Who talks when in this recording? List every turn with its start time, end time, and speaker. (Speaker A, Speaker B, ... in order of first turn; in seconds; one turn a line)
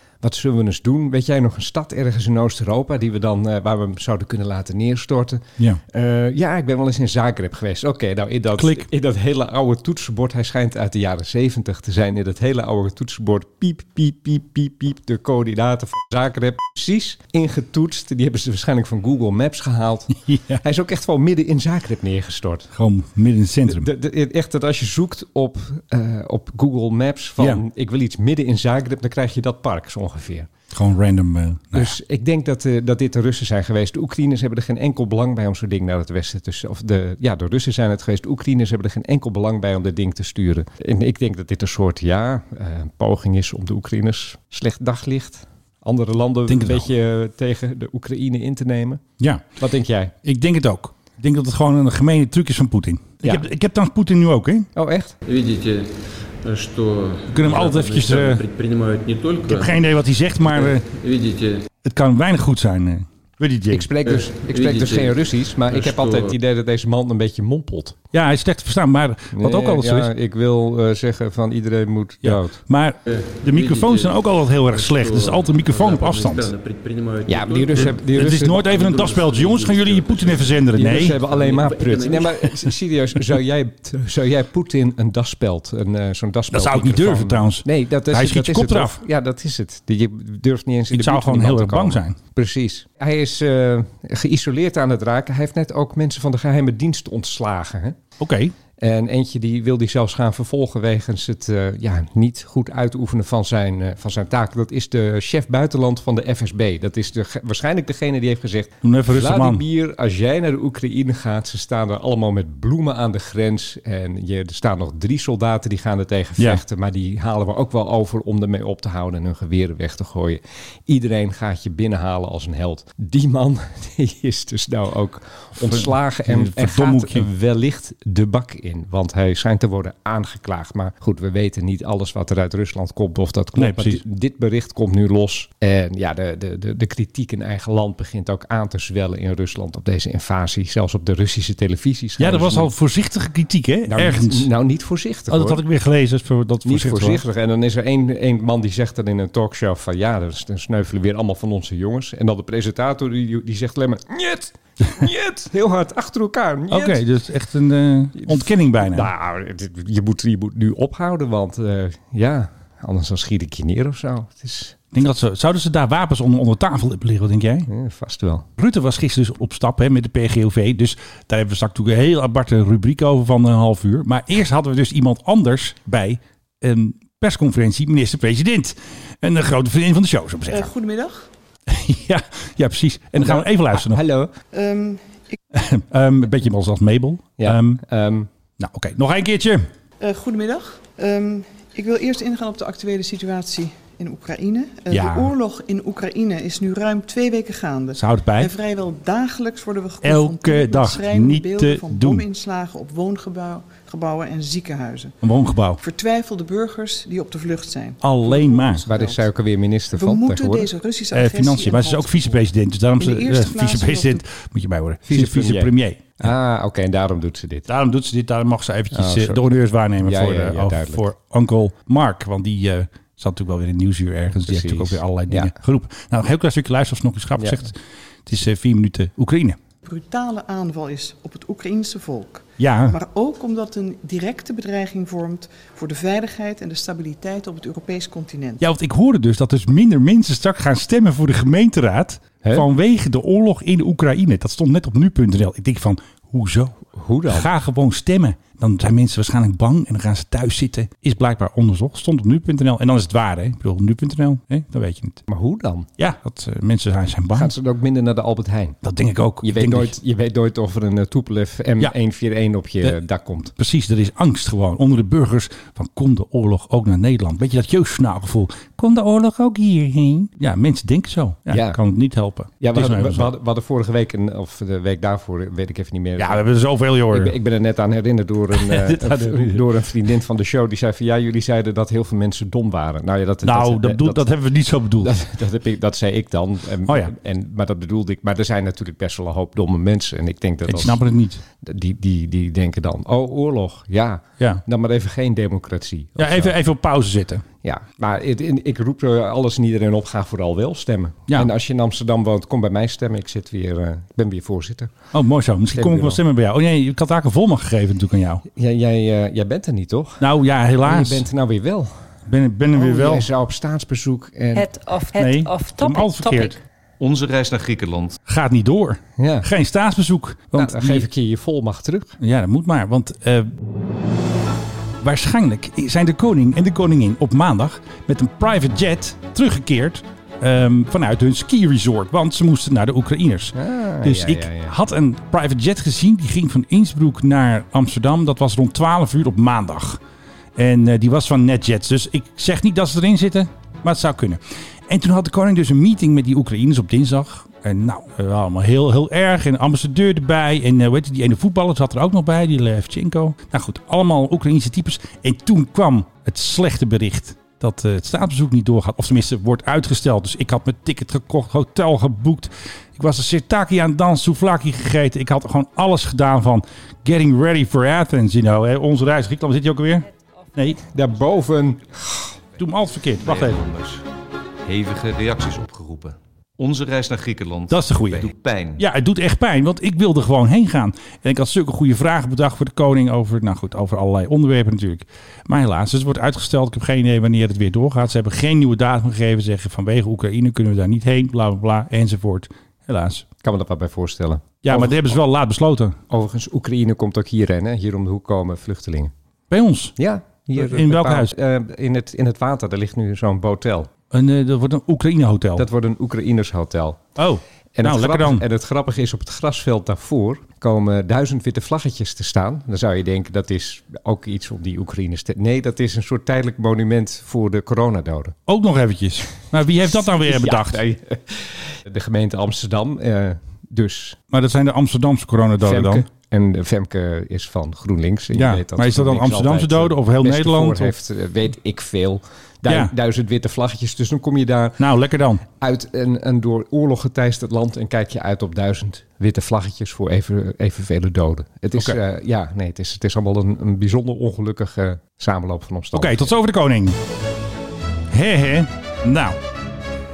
Speaker A: 0.2-22.7
Speaker B: 8.6-8.9
Speaker B: 20.2-20.6
Speaker B: 22.7-23.9
Speaker A: 23.7-30.5
Speaker B: 30.7-31.9
Speaker A: 31.7-49.0
Speaker B: 46.5-46.9
Speaker B: 49.2-49.5
Speaker A: 49.6-50.1
Speaker B: 50.2-54.7
Speaker A: 54.7-55.2
Speaker C: 55.2-59.8
Speaker B: 57.3-58.4
Speaker B: 59.5-60.9
Speaker C: 60.4-61.6
Speaker B: 61.8-63.9
Speaker A: 63.7-68.0
Speaker C: 64.0-66.4
Speaker B: 68.1-70.1
Speaker A: 69.3-72.6
Speaker B: 72.2-76.5
Speaker C: 73.1-82.5
Speaker A: 77.2-78.7
Speaker B: 77.7-81.2
Speaker A: 80.7-98.0
Speaker B: 86.5-89.0
Speaker B: 90.9-92.2
Speaker B: 98.2-98.5
Speaker A: 98.8-142.7
Speaker B: 108.8-109.6
Speaker B: 125.6-127.3
Speaker B: 133.5-134.0
Speaker B: 142.2-144.5
Speaker A: 143.9-145.6
Speaker B: 145.3-147.2
Speaker A: 146.6-157.0
Speaker B: 156.7-159.1
Speaker A: 158.2-164.8
Speaker B: 164.9-167.7
Speaker A: 167.7-168.5
Speaker B: 168.6-180.7
Speaker D: 180.5-181.2
Speaker B: 181.7-184.0
Speaker A: 183.2-184.3
Speaker D: 184.5-185.0
Speaker B: 185.5-187.8
Speaker A: 187.4-188.3
Speaker B: 188.6-189.7
Speaker D: 190.0-205.1
Speaker B: 194.9-195.3
Speaker B: 197.9-198.5
Speaker B: 200.0-202.2
Speaker B: 205.2-205.8
Speaker D: 205.8-209.3
Speaker B: 208.0-208.8
Speaker A: 208.9-210.7
Speaker D: 209.9-212.4
Speaker B: 211.1-216.3
Speaker D: 213.0-214.2
Speaker A: 215.1-217.7
Speaker B: 217.7-229.6
Speaker A: 218.9-219.4
Speaker A: 220.0-221.1
Speaker A: 224.3-225.5
Speaker A: 227.4-227.7
Speaker D: 229.8-238.6
Speaker B: 232.6-233.0
Speaker B: 238.6-255.2
Speaker A: 246.9-247.5
Speaker A: 255.3-255.9
Speaker B: 256.0-257.5
Speaker A: 257.3-258.8
Speaker B: 258.8-259.9
Speaker A: 259.4-263.5
Speaker B: 263.5-273.3
Speaker A: 271.5-271.8
Speaker A: 272.6-276.4
Speaker B: 276.2-277.3
Speaker A: 277.1-284.3
Speaker B: 278.5-279.7
Speaker B: 283.4-285.1
Speaker A: 285.0-291.0
Speaker B: 286.9-287.1
Speaker B: 290.6-291.4
Speaker A: 291.6-296.5
Speaker B: 296.2-297.4
Speaker A: 297.6-304.9
Speaker B: 305.1-308.4
Speaker A: 305.7-306.2
Speaker A: 308.5-310.3
Speaker B: 310.2-311.3
Speaker A: 310.8-311.9
Speaker B: 312.3-313.3
Speaker A: 312.7-314.7
Speaker E: 314.5-316.6
Speaker B: 315.1-316.6
Speaker F: 317.0-318.2
Speaker B: 318.3-321.1
Speaker A: 319.2-319.5
Speaker A: 320.5-322.2
Speaker B: 322.2-323.5
Speaker B: 325.0-340.0
Speaker A: 333.5-334.7
Speaker B: 340.6-370.8
Speaker A: 370.9-372.3
Speaker B: 372.6-373.6
Speaker F: 373.2-374.0
Speaker F: 374.6-378.8
Speaker B: 377.7-393.2
Speaker A: 393.4-395.1
Speaker B: 394.6-396.0
Speaker A: 396.1-399.1
Speaker B: 399.5-399.9
Speaker A: 400.0-403.9
Speaker B: 400.5-401.3
Speaker B: 404.1-405.7
Speaker A: 405.6-407.0
Speaker B: 407.1-408.4
Speaker A: 407.8-418.4
Speaker B: 418.5-420.8
Speaker A: 419.8-424.2
Speaker B: 424.3-426.1
Speaker A: 425.6-434.8
Speaker B: 428.3-430.9
Speaker B: 432.6-432.9
Speaker B: 434.8-435.4
Speaker A: 435.6-446.3
Speaker B: 445.9-447.0
Speaker B: 448.1-449.4